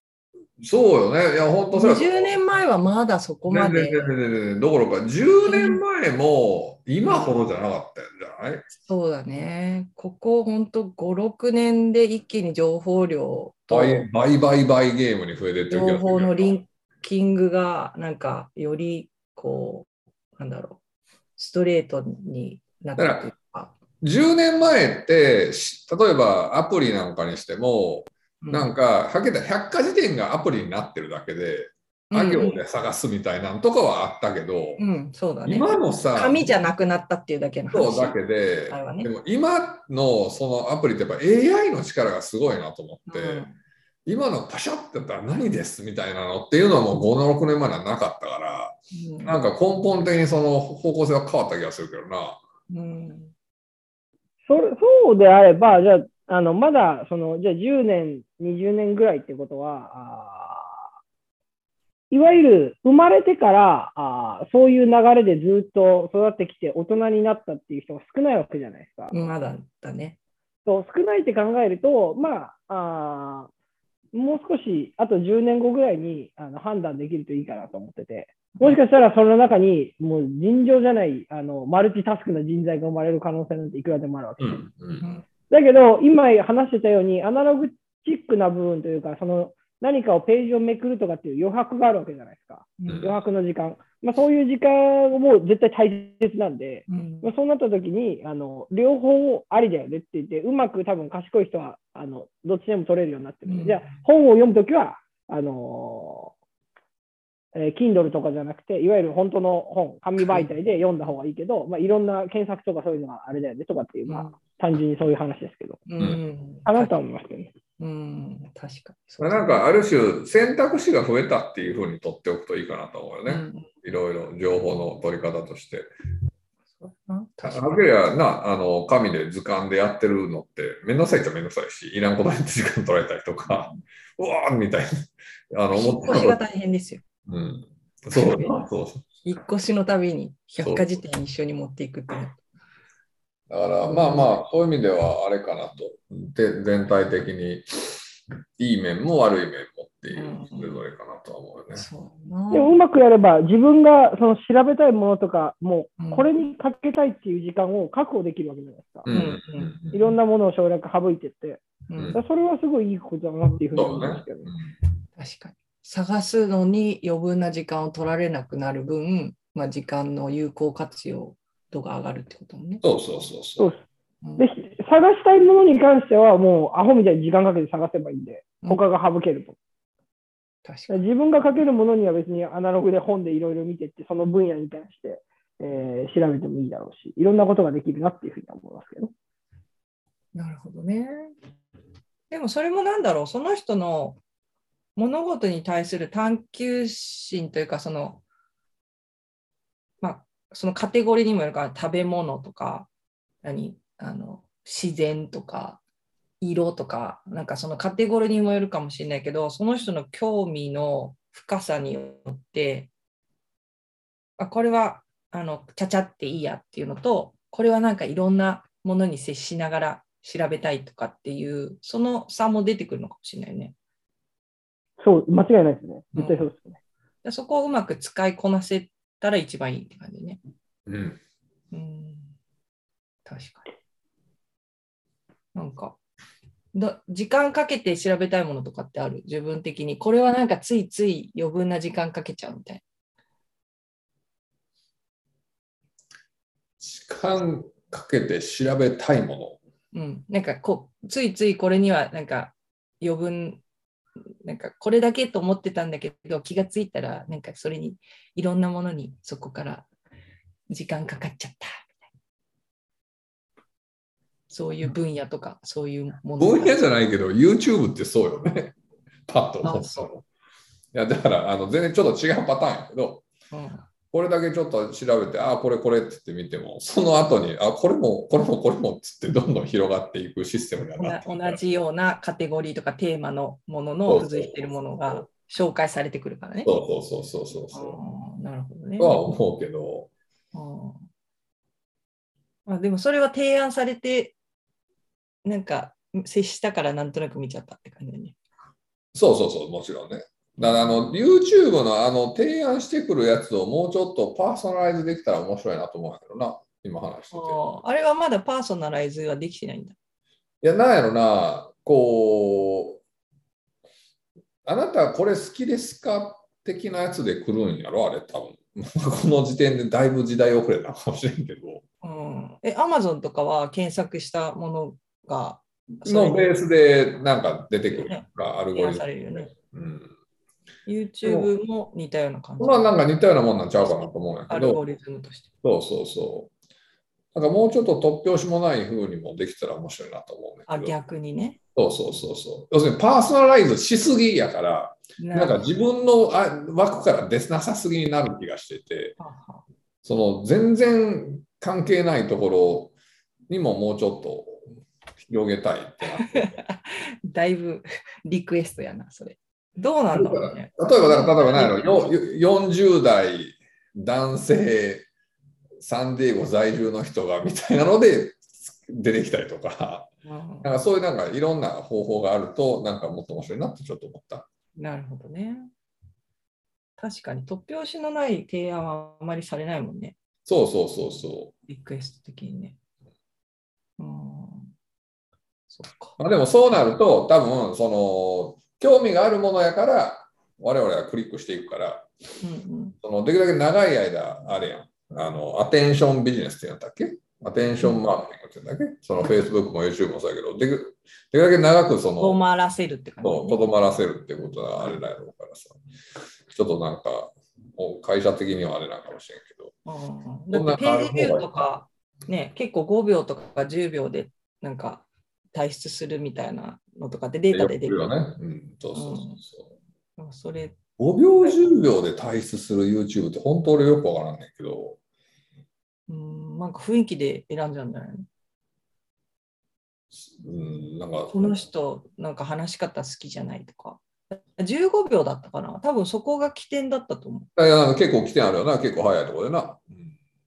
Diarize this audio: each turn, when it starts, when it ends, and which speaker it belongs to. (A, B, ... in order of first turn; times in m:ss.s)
0:00.6-0:02.4 A
0:01.7-0:04.1 B
0:03.5-0:08.7 A
0:05.4-0:05.8 B
0:07.0-0:07.5 B
0:08.8-0:14.1 B
0:13.7-0:16.6 A
0:15.7-0:20.8 B
0:21.4-0:23.7 B
0:23.0-0:23.3 A
0:24.0-0:34.8 A
0:28.4-0:28.7 B
0:32.1-0:32.6 B
0:34.8-0:38.2 B
0:35.4-0:36.4 A
0:37.7-0:43.4 A
0:38.7-0:39.1 B
0:43.1-0:43.5 B
0:44.0-0:52.4 A
0:48.9-0:49.4 B
0:52.7-0:53.3 B
0:54.4-1:00.8 C
1:02.1-1:09.1 C
1:09.1-1:10.2 B
1:10.6-1:13.5 C
1:14.1-1:24.6 C
1:24.4-1:25.0 A
1:25.5-1:46.3 C
1:32.8-1:33.1 B
1:36.9-1:37.3 B
1:43.5-1:43.9 B
1:47.5-1:55.8 C
1:50.2-1:50.5 B
1:54.1-1:54.3 B
1:55.9-1:57.0 B
1:56.6-1:57.5 C
1:57.8-1:59.6 B
1:59.2-2:05.9 A
2:03.2-2:03.7 B
2:06.8-2:07.8 B
2:07.4-2:16.4 A
2:15.7-2:17.0 B
2:17.3-2:19.0 A
2:18.1-2:18.6 B
2:19.2-2:22.4 B
2:20.6-2:20.8 A
2:23.5-2:31.8 A
2:23.8-2:24.4 B
2:30.1-2:30.8 B
2:31.7-2:32.7 B
2:32.5-2:39.1 C
2:36.0-2:36.3 B
2:39.0-2:40.0 A
2:39.1-2:39.7 B
2:39.9-2:41.6 C
2:41.9-2:42.2 B
2:42.1-2:44.5 C
2:43.7-2:44.6 A
2:45.2-2:52.8 B
2:52.8-2:53.7 A
2:54.4-2:59.6 C
3:00.6-3:01.0 B
3:00.9-3:09.1 C
3:10.3-3:11.3 B
3:12.3-3:14.2 B
3:15.0-3:18.2 B
3:20.0-3:22.9 B
3:23.4-3:25.8 B
3:26.4-3:32.9 B
3:34.4-3:43.7 B
3:45.0-3:46.8 C
3:46.2-3:46.5 B
3:47.2-3:50.4 B
3:50.9-3:51.2 A
3:51.7-3:52.3 B
3:53.2-3:53.7 B
3:55.5-3:56.0 B
3:56.7-4:02.8 B
4:06.8-4:09.6 A
4:09.9-4:13.6 B
4:14.4-4:19.9 B
4:20.7-4:22.0 B
4:24.5-4:26.8 B
4:26.4-4:28.7 A
4:29.3-4:30.2 A
4:29.6-4:30.1 B
4:30.9-4:33.2 A
4:33.5-4:33.8 B
4:34.1-4:41.6 A
4:41.0-4:46.7 B
4:44.1-4:45.2 A
4:46.6-4:48.0 A
4:47.7-4:49.2 B
4:49.0-4:50.1 A
4:50.5-4:51.0 B
4:52.6-4:54.4 B
4:55.4-4:58.4 B
4:59.1-5:07.6 A
5:00.6-5:01.1 B
5:07.3-5:10.0 B
5:10.6-5:13.0 A
5:14.6-5:21.8 A
5:22.0-5:26.6 B
5:26.0-5:30.1 A
5:27.9-5:29.5 B
5:30.8-5:32.8 B
5:31.2-5:31.5 A
5:32.6-5:34.8 A
5:34.5-5:35.5 B
5:35.6-5:36.5 A
5:37.3-5:40.9 A
5:40.7-5:41.6 B
5:41.8-5:49.2 A
5:45.2-5:45.6 B
5:49.2-5:49.6 B
5:50.0-5:52.9 A
5:53.5-5:54.6 A
5:55.2-5:56.6 A
5:56.2-6:02.1 B
6:00.1-6:05.0 A
6:05.8-6:10.1 A
6:10.2-6:10.7 B
6:10.6-6:14.5 A
6:14.8-6:15.7 B
6:17.0-6:20.2 B
6:20.4-6:21.5 A
6:21.7-6:22.8 B
6:24.0-6:24.7 B
6:25.7-6:26.2 B
6:26.2-6:32.1 A
6:32.4-6:33.0 B
6:33.0-6:42.4 A
6:37.8-6:38.0 B
6:42.2-6:43.7 B
6:43.2-6:45.8 A
6:46.5-6:49.7 A
6:49.8-6:58.1 B
6:50.5-6:51.7 A
6:57.5-6:59.6 A
6:58.9-6:59.4 B
7:00.2-7:00.8 B
7:01.0-7:05.0 A
7:06.1-7:08.3 B
7:10.1-7:11.6 A
7:11.3-7:17.5 B
7:17.6-7:20.1 A